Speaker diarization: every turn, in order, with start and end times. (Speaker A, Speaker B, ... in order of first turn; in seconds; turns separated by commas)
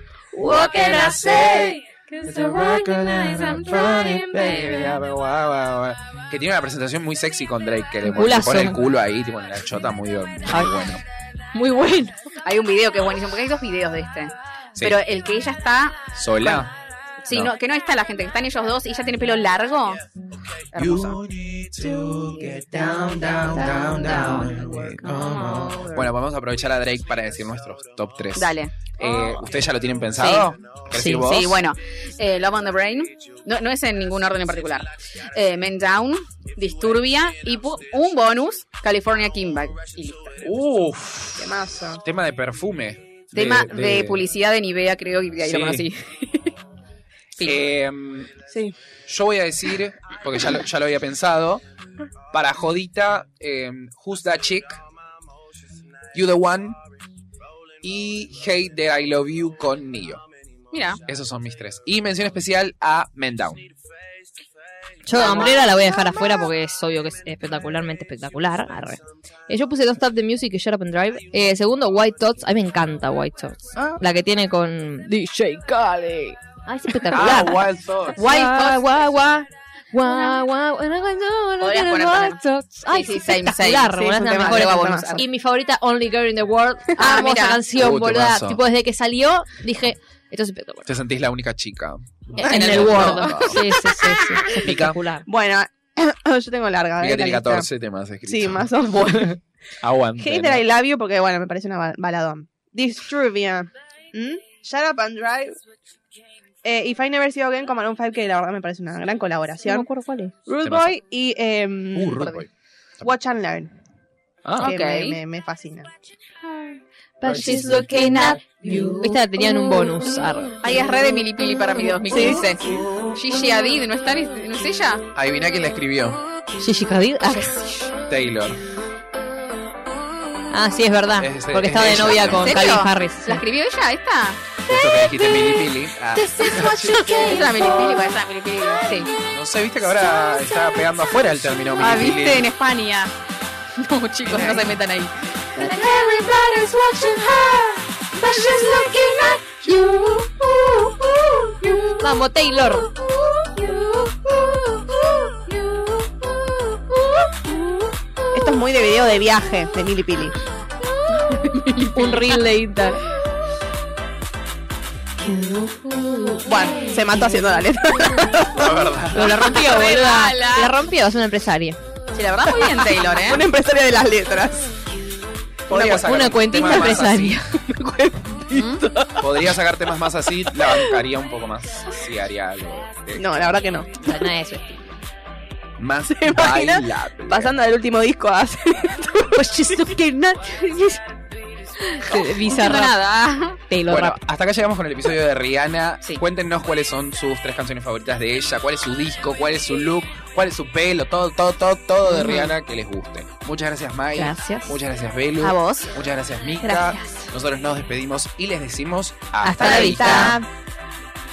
Speaker A: 0.3-5.0, Speaker B: 0.4-11.0, Speaker C: 4.4-4.8, Speaker D: 8.0-8.8, Speaker D: 10.5-10.9, Speaker D: 11.5-12.2, Speaker C: 12.4-16.6, Speaker B: 16.1-16.7, Speaker C: 17.2-20.0, Speaker B: 17.3-17.5, Speaker C: 20.7-21.2, Speaker B: 20.8-31.6, Speaker A: 22.5-25.5, Speaker C: 25.0-26.1, Speaker C: 28.3-29.4, Speaker C: 30.1-30.5, Speaker D: 30.9-31.4, Speaker C: 31.1-40.4, Speaker B: 40.4-44.2, Speaker E: 41.4-42.0, Speaker C: 43.3-46.5, Speaker B: 45.4-45.9, Speaker B: 47.4-48.3, Speaker E: 48.5-48.8, Speaker B: 49.1-51.6, Speaker B: 52.3-54.8, Speaker B: 56.1-56.8, Speaker B: 57.8-60.2, Speaker C: 60.7-61.0, Speaker B: 61.0-63.7, Speaker D: 65.0-90.9, Speaker C: 65.1-65.7, Speaker B: 77.1-78.2, Speaker C: 78.2-78.8, Speaker C: 81.6-85.2, Speaker E: 83.9-85.2, Speaker C: 87.0-87.7, Speaker B: 87.7-88.6, Speaker B: 90.8-93.8, Speaker D: 92.4-95.2, Speaker C: 92.4-94.5, Speaker B: 94.6-95.0, Speaker E: 95.2-97.7, Speaker B: 97.0-98.7, Speaker E: 98.2-99.4, Speaker B: 99.8-100.6, Speaker E: 100.2-105.6, Speaker E: 106.6-109.9, Speaker D: 109.6-110.3, Speaker E: 110.5-112.3, Speaker B: 110.6-110.9, Speaker B: 111.9-112.5, Speaker E: 113.0-113.7, Speaker B: 114.4-114.7, Speaker C: 114.6-115.2, Speaker E: 114.6-115.9, Speaker A: 117.2-120.0, Speaker B: 117.2-118.3, Speaker D: 117.2-118.4, Speaker D: 118.9-120.6, Speaker C: 120.6-125.0, Speaker E: 122.0-122.9, Speaker A: 122.1-122.4, Speaker B: 125.1-126.2, Speaker D: 126.6-127.5, Speaker C: 127.2-128.0, Speaker B: 128.1-128.6, Speaker D: 130.5-133.4, Speaker B: 131.2-132.6, Speaker C: 132.2-134.4, Speaker B: 134.7-137.4, Speaker A: 134.7-139.2, Speaker C: 136.4-139.1, Speaker B: 139.3-142.5, Speaker A: 139.9-140.9, Speaker C: 141.8-143.1, Speaker C: 143.8-146.0, Speaker D: 144.3-144.6, Speaker A: 145.6-158.6, Speaker D: 152.0-152.9, Speaker E: 158.3-160.3, Speaker A: 160.8-161.6, Speaker C: 161.3-162.3, Speaker D: 161.4-163.0, Speaker A: 165.2-167.3, Speaker E: 166.4-169.0, Speaker B: 168.5-169.6, Speaker D: 169.1-171.8, Speaker C: 169.2-170.9, Speaker C: 172.1-173.4, Speaker E: 172.4-174.7, Speaker B: 175.7-177.4, Speaker E: 175.7-176.2, Speaker D: 175.9-177.6, Speaker E: 177.7-179.2, Speaker C: 178.5-178.8, Speaker B: 179.2-183.4, Speaker E: 183.2-184.1, Speaker D: 184.0-184.9, Speaker B: 185.8-187.5, Speaker E: 186.1-190.5, Speaker A: 189.7-190.0, Speaker A: 190.6-191.0, Speaker D: 192.0-193.0, Speaker C: 192.1-193.6, Speaker D: 193.7-194.2, Speaker B: 193.9-210.4, Speaker D: 202.1-202.5, Speaker D: 204.2-204.8, Speaker E: 205.4-205.9, Speaker D: 206.7-207.2, Speaker D: 209.5-210.4, Speaker E: 209.5-210.4, Speaker C: 209.6-210.3